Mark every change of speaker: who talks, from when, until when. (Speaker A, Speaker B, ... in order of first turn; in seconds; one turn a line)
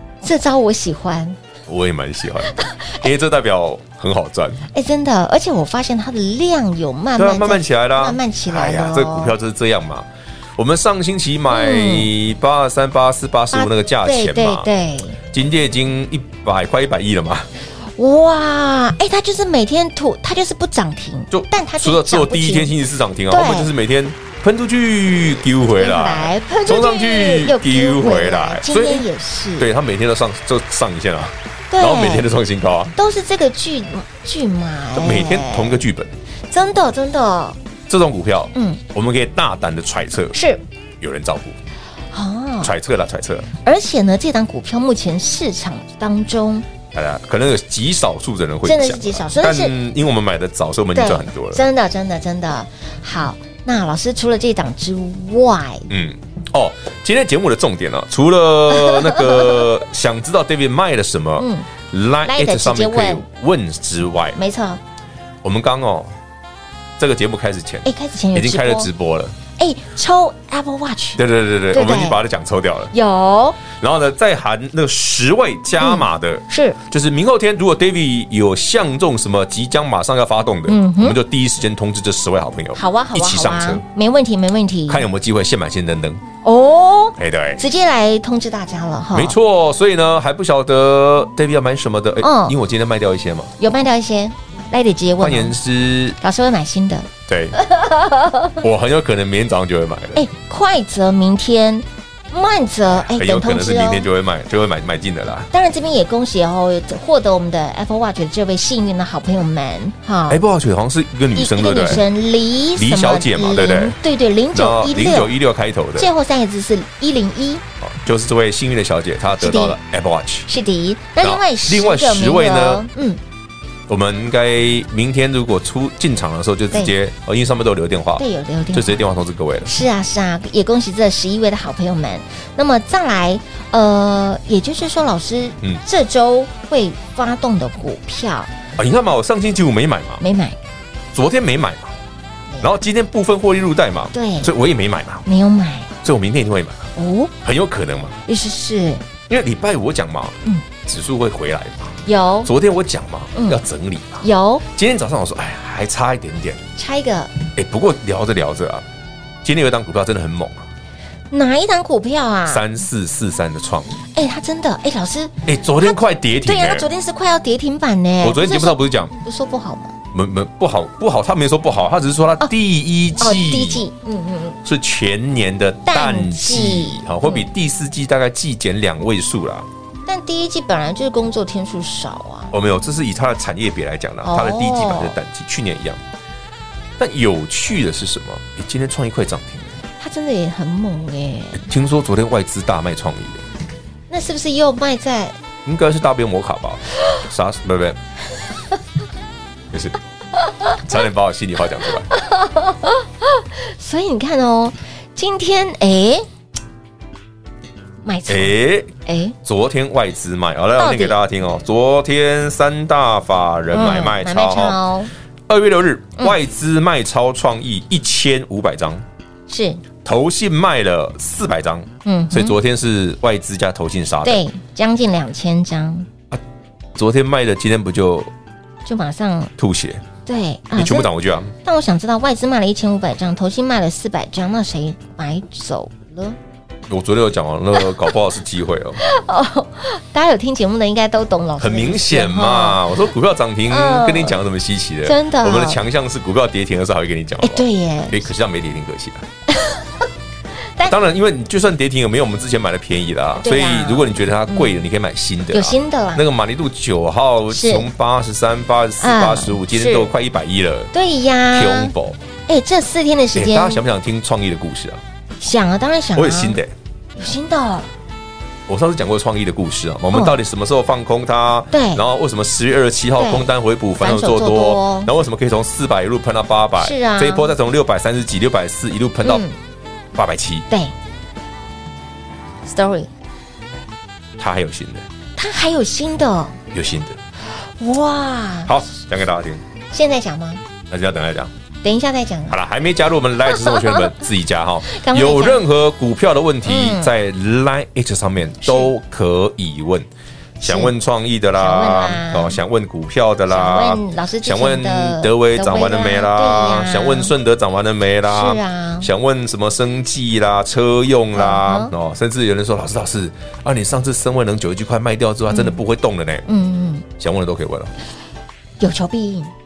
Speaker A: 0.2-1.4
Speaker B: 1.7-4.7
Speaker A: 2.6-3.0
Speaker A: 4.7-9.4
Speaker B: 7.2-14.7
Speaker A: 11.5-12.1
Speaker A: 13.5-15.2
Speaker B: 15.3-17.5
Speaker A: 18.0-22.8
Speaker B: 21.3-32.9
Speaker A: 23.3-23.7
Speaker A: 25.7-29.7
Speaker A: 31.7-32.3
Speaker A: 33.0-35.8
Speaker B: 34.9-36.1
Speaker A: 36.5-37.6
Speaker B: 37.9-40.4
Speaker A: 38.5-38.8
Speaker A: 40.3-40.6
Speaker B: 41.0-41.6
Speaker A: 42.1-42.7
Speaker B: 42.6-43.5
Speaker A: 43.6-46.7
Speaker B: 46.9-51.6
Speaker A: 48.6-49.8
Speaker A: 51.0-55.9
Speaker B: 55.9-64.4
Speaker A: 58.7-59.6
Speaker A: 61.4-61.7
Speaker A: 62.2-63.2
Speaker A: 64.3-64.8
Speaker B: 65.4-66.1
Speaker B: 67.0-69.4
Speaker A: 67.8-68.9
Speaker A: 69.6-72.2
Speaker B: 71.2-72.9
Speaker A: 72.9-73.6
Speaker B: 73.7-83.8
Speaker A: 75.8-76.8
Speaker A: 80.7-81.2
Speaker A: 82.8-85.1
Speaker B: 84.9-86.2
Speaker A: 86.4-89.4
Speaker B: 87.2-87.6
Speaker B: 89.1-93.5
Speaker A: 92.2-92.6
Speaker A: 93.6-95.6
Speaker B: 95.2-96.2
Speaker A: 96.2-98.6
Speaker B: 97.3-97.6
Speaker B: 98.6-100.2
Speaker A: 100.2-104.1
Speaker B: 103.0-105.5
Speaker A: 105.5-110.4
Speaker B: 110.3-112.1
Speaker A: 111.3-115.3
Speaker B: 112.8-114.0
Speaker B: 114.5-116.1
Speaker A: 116.0-117.6
Speaker B: 117.8-120.5
Speaker A: 119.4-119.8
Speaker A: 120.5-123.2
Speaker B: 121.2-122.9
Speaker B: 123.9-129.7
Speaker A: 128.2-129.1
Speaker A: 129.7-138.5
Speaker B: 138.8-140.2
Speaker A: 140.2-140.6
Speaker B: 141.1-142.0
Speaker B: 142.6-145.3
Speaker A: 144.1-144.5
Speaker A: 145.3-145.9
Speaker B: 146.0-148.2
Speaker A: 146.9-147.3
Speaker A: 148.3-149.0
Speaker B: 149.3-156.6
Speaker A: 152.1-152.5
Speaker A: 153.3-153.6
Speaker A: 154.2-154.7
Speaker A: 156.8-157.3
Speaker B: 157.6-158.9
Speaker B: 159.4-160.7
Speaker A: 161.3-162.7
Speaker B: 162.5-164.0
Speaker A: 164.1-169.9
Speaker B: 165.5-166.9
Speaker B: 168.2-169.1
Speaker B: 170.1-173.8
Speaker A: 173.2-174.6
Speaker B: 174.6-179.7
Speaker A: 175.9-177.5
Speaker A: 180.1-182.5
Speaker B: 182.5-186.0
Speaker A: 184.2-185.2
Speaker B: 187.0-189.8
Speaker A: 190.0-191.7
Speaker B: 191.6-193.4
Speaker A: 194.1-195.4
Speaker B: 195.7-198.0
Speaker B: 199.7-200.0
Speaker B: 200.6-202.1
Speaker A: 202.1-206.3
Speaker A: 208.0-209.3
Speaker B: 208.3-208.9
Speaker B: 209.4-214.8
Speaker A: 210.8-211.2
Speaker A: 213.7-215.1
Speaker B: 215.5-219.0
Speaker A: 219.5-219.8
Speaker B: 220.0-224.4
Speaker A: 222.1-222.6
Speaker A: 224.2-226.1
Speaker B: 227.0-228.3
Speaker A: 228.8-229.5
Speaker B: 229.6-230.1
Speaker A: 230.3-231.1
Speaker B: 230.8-231.5
Speaker A: 231.6-236.4
Speaker B: 236.9-239.0
Speaker A: 239.0-242.9
Speaker B: 241.6-249.3
Speaker A: 243.7-244.4
Speaker A: 245.1-245.8
Speaker A: 247.4-248.2
Speaker A: 249.5-250.0
Speaker B: 250.8-260.9
Speaker A: 253.4-254.8
Speaker A: 255.5-256.2
Speaker A: 257.5-257.9
Speaker A: 259.0-260.1
Speaker A: 260.9-261.9
Speaker B: 261.5-262.2
Speaker A: 262.5-263.8
Speaker B: 263.3-265.0
Speaker A: 265.4-266.6
Speaker B: 266.1-266.7
Speaker A: 267.2-267.9
Speaker B: 268.7-279.4
Speaker A: 270.1-270.4
Speaker A: 271.7-272.0
Speaker A: 273.2-275.1
Speaker A: 276.8-277.5
Speaker A: 279.2-279.6
Speaker B: 280.1-280.7
Speaker A: 282.6-283.1
Speaker B: 284.4-285.1
Speaker A: 285.4-286.6
Speaker B: 286.7-287.2
Speaker A: 287.6-288.8
Speaker B: 288.7-289.6
Speaker A: 289.9-290.6
Speaker B: 290.9-291.5
Speaker A: 291.8-292.6
Speaker B: 292.5-300.1
Speaker A: 293.5-294.1
Speaker A: 294.9-295.6
Speaker A: 296.6-297.1
Speaker A: 298.6-298.9
Speaker A: 300.6-300.9
Speaker B: 300.6-316.5
Speaker A: 301.6-302.6
Speaker A: 303.5-307.3
Speaker A: 308.2-309.1
Speaker A: 311.3-311.9
Speaker A: 315.5-315.8
Speaker A: 316.5-317.1
Speaker B: 317.2-317.9
Speaker A: 318.8-319.5